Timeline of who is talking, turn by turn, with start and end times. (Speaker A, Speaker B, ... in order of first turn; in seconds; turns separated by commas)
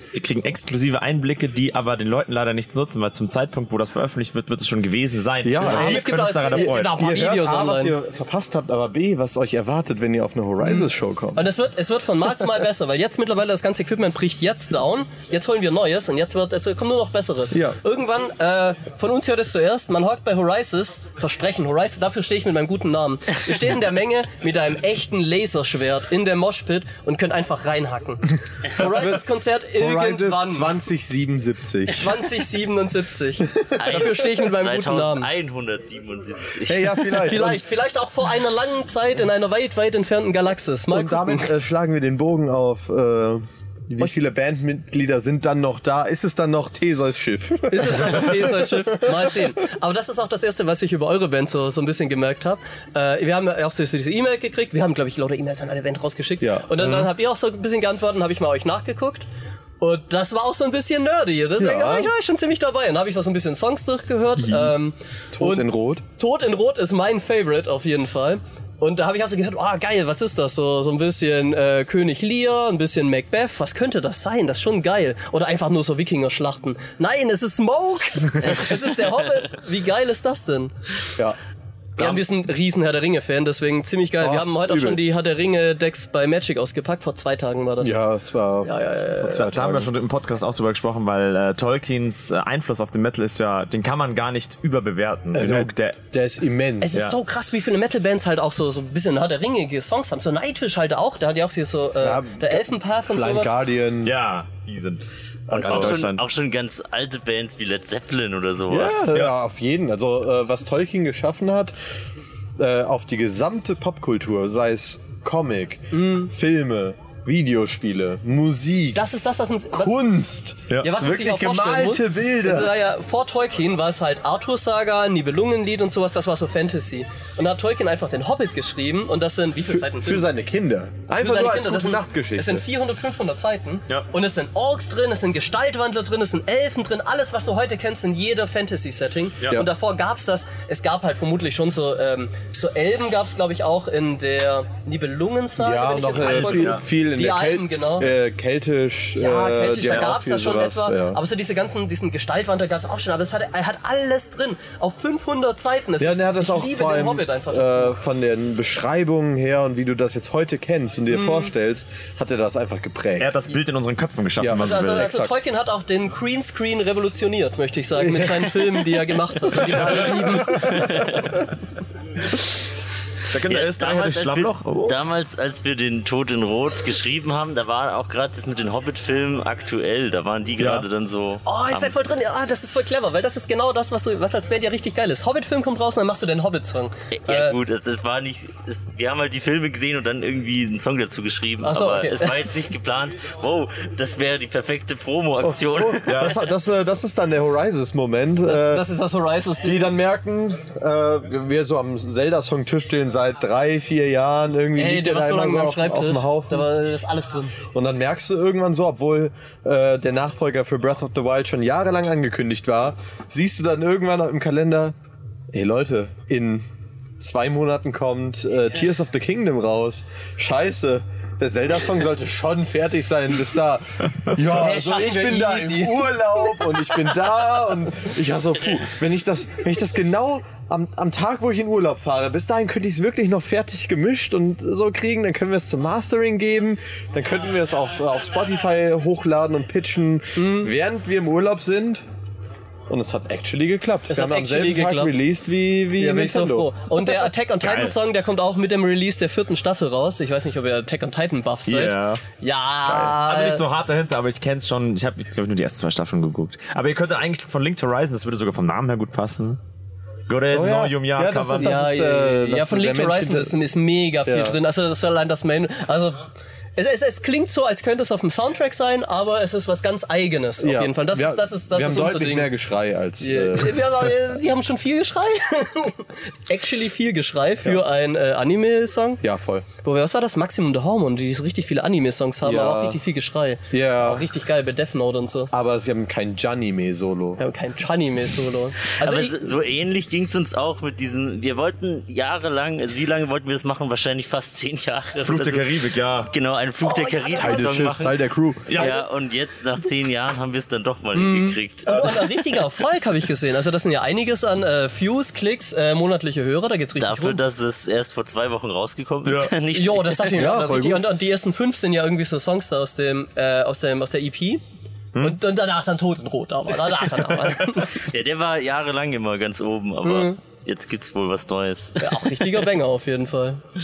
Speaker A: 0.1-7.0, Speaker B: 5.4-11.5, Speaker C: 5.6-7.9, Speaker C: 10.6-30.7, Speaker B: 17.5-17.8, Speaker B: 28.7-32.2, Speaker C: 31.9-35.3, Speaker D: 33.8-37.3, Speaker B: 36.6-37.6, Speaker C: 37.2-41.5, Speaker B: 40.9-49.4, Speaker C: 47.7-59.3, Speaker B: 56.4-57.1, Speaker C: 59.8-80.7, Speaker B: 61.6-62.1, Speaker B: 64.4-64.7, Speaker B: 65.3-66.0, Speaker C: 82.0-87.9, Speaker B: 84.2-85.0, Speaker B: 87.8-89.9, Speaker C: 88.6-89.5, Speaker A: 89.4-96.0, Speaker B: 95.3-97.0, Speaker C: 96.8-103.5, Speaker B: 102.0-104.2, Speaker A: 104.0-106.2, Speaker B: 105.5-106.2, Speaker D: 105.5-109.1, Speaker B: 108.7-111.7, Speaker A: 109.1-109.3, Speaker B: 112.6-119.1, Speaker C: 115.9-116.3, Speaker C: 118.9-120.0, Speaker B: 119.7-122.8, Speaker C: 120.8-130.3, Speaker B: 129.7-132.6, Speaker C: 131.2-148.1, Speaker B: 145.6-151.2, Speaker A: 146.1-146.8, Speaker C: 149.2-157.9, Speaker B: 156.0-163.3, Speaker C: 161.1-161.5, Speaker A: 163.2-165.2, Speaker B: 164.4-165.3, Speaker C: 164.6-171.1, Speaker B: 168.0-168.5, Speaker D: 170.7-171.3, Speaker A: 173.3-175.0, Speaker D: 173.5-181.9, Speaker A: 180.6-180.8, Speaker C: 181.4-187.6, Speaker D: 187.1-196.3, Speaker C: 191.6-192.5, Speaker B: 195.4-198.9, Speaker A: 196.1-196.4, Speaker C: 198.4-199.8, Speaker B: 199.6-206.7, Speaker C: 204.8-207.6, Speaker B: 207.7-214.9, Speaker B: 215.5-216.6, Speaker B: 217.2-242.0, Speaker C: 224.4-227.1, Speaker C: 240.3-240.7, Speaker B: 242.9-246.7, Speaker C: 244.1-245.1, Speaker C: 246.0-253.6, Speaker A: 247.6-247.9, Speaker A: 251.7-252.2, Speaker A: 252.9-259.6, Speaker A: 260.3-261.8, Speaker B: 260.5-263.6, Speaker C: 261.6-272.5, Speaker B: 264.2-264.6, Speaker B: 270.6-273.8, Speaker C: 273.2-279.2, Speaker B: 279.2-279.7, Speaker C: 279.8-285.5, Speaker B: 282.4-283.0, Speaker B: 283.7-284.2, Speaker B: 285.5-287.4, Speaker C: 287.4-289.5, Speaker D: 288.9-295.7, Speaker A: 295.2-296.3, Speaker D: 296.2-302.3, Speaker C: 296.8-297.8, Speaker B: 297.3-298.8, Speaker A: 298.7-298.9, Speaker C: 298.8-299.0, Speaker C: 301.1-307.4, Speaker D: 306.9-310.5, Speaker A: 309.2-309.5, Speaker C: 309.7-314.6, Speaker B: 310.3-311.1, Speaker C: 315.2-318.0, Speaker D: 317.8-322.4, Speaker C: 320.0-320.4, Speaker C: 322.0-323.6